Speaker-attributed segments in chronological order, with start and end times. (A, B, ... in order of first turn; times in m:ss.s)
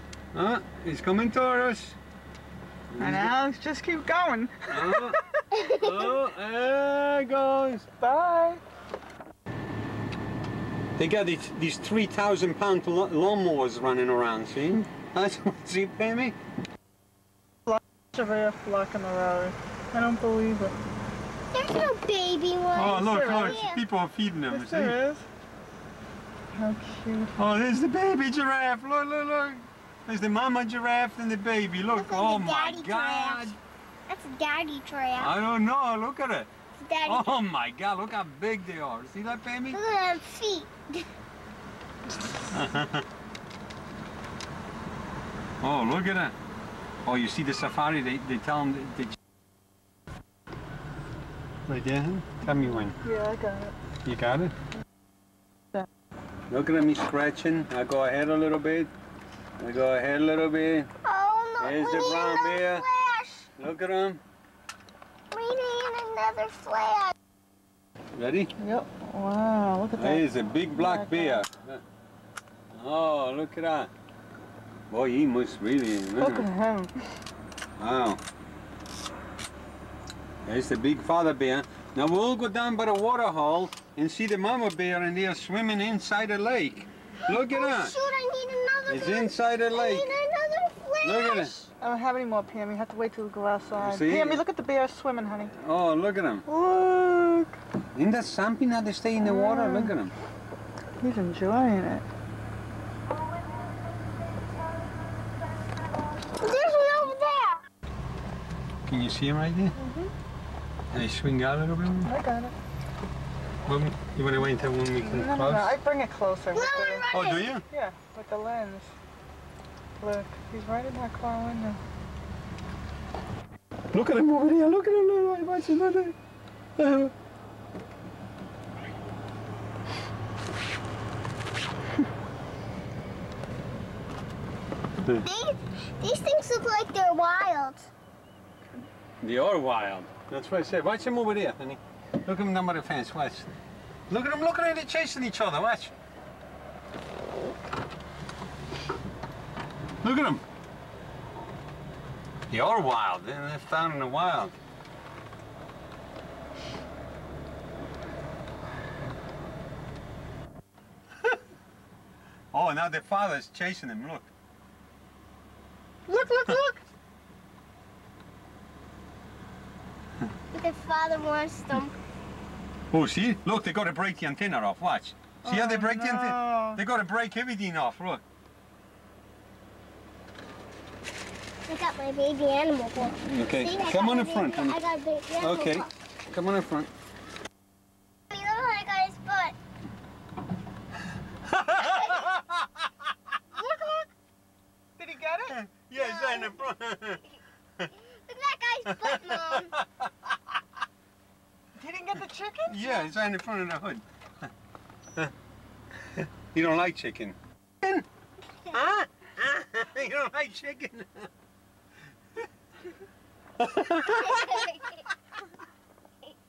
0:00.3-0:02.0 A
0:02.9-0:03.3 A
0:03.0-0:05.4 B
0:04.7-0:07.9 A
0:08.0-0:08.6 B
0:11.0-0:16.4 A
0:17.7-0:20.8 B
0:21.5-0:23.8 C
0:22.7-0:25.0 A
0:22.9-0:23.6 B
0:24.5-0:25.3 B
0:26.5-0:27.4 B
0:27.4-0:33.6 A
0:31.9-0:33.6 C
0:34.1-0:35.3 C
0:35.2-0:36.5 A
0:36.8-0:37.4 C
0:37.0-0:39.8 A
0:39.7-0:41.0 C
0:42.5-0:43.0 A
0:45.6-0:46.3 A
0:47.0-0:49.2 A
0:51.7-0:53.0 A
0:53.0-0:53.7 B
0:54.0-0:54.5 A
0:56.5-0:58.9 A
0:59.6-1:00.9 A
1:01.0-1:03.5 C
1:01.6-1:02.9 A
1:03.6-1:04.2 A
1:05.3-1:07.1 C
1:08.2-1:08.5 A
1:08.6-1:11.4 B
1:10.0-1:11.8 A
1:12.7-1:13.9 A
1:14.9-1:16.5 A
1:16.2-1:16.9 B
1:17.8-1:18.2 A
1:20.4-1:28.0 A
1:27.3-1:31.7 C
1:28.9-1:30.1 A
1:31.0-1:31.6 A
1:31.8-1:35.5 B
1:33.8-1:34.4 A
1:35.5-1:36.5 A
1:36.5-1:37.6 B
1:38.0-1:40.2 A
1:39.2-1:40.0 B
1:41.0-1:42.1 B
1:46.2-1:47.6 C
1:48.9-1:49.8 A
1:49.8-1:50.1 B
1:50.9-1:52.1 A
1:52.0-1:52.5 B
1:53.7-1:55.8 A
1:55.0-1:57.1 B
1:56.5-1:57.6 C
1:57.1-1:57.6 A
1:57.7-1:58.9 B
2:00.0-2:01.8 B
2:03.9-2:06.2 A
2:06.8-2:07.1 A
2:15.2-2:17.9 C
2:19.2-2:23.5 A
2:24.1-2:25.9 A
2:30.0-2:30.4 A
2:32.5-2:34.6 A
2:42.5-2:44.3 A
2:46.1-2:46.8 C
2:50.5-2:51.9 C
2:52.9-2:58.2 A
2:55.4-2:56.8 B
3:01.7-3:05.9 C
3:03.2-3:04.8 A
3:05.4-3:06.9 A
3:08.3-3:09.6 C
3:11.4-3:12.6 A
3:11.8-3:12.3 C
3:13.5-3:14.1 B
3:15.0-3:15.6 B
3:15.5-3:17.2 A
3:16.0-3:16.5 C
3:18.3-3:19.7 C
3:19.0-3:19.8 A
3:21.8-3:23.1 B
3:22.7-3:24.0 A
3:26.0-3:28.1 A
3:28.7-3:31.3 A
3:33.6-3:34.9 A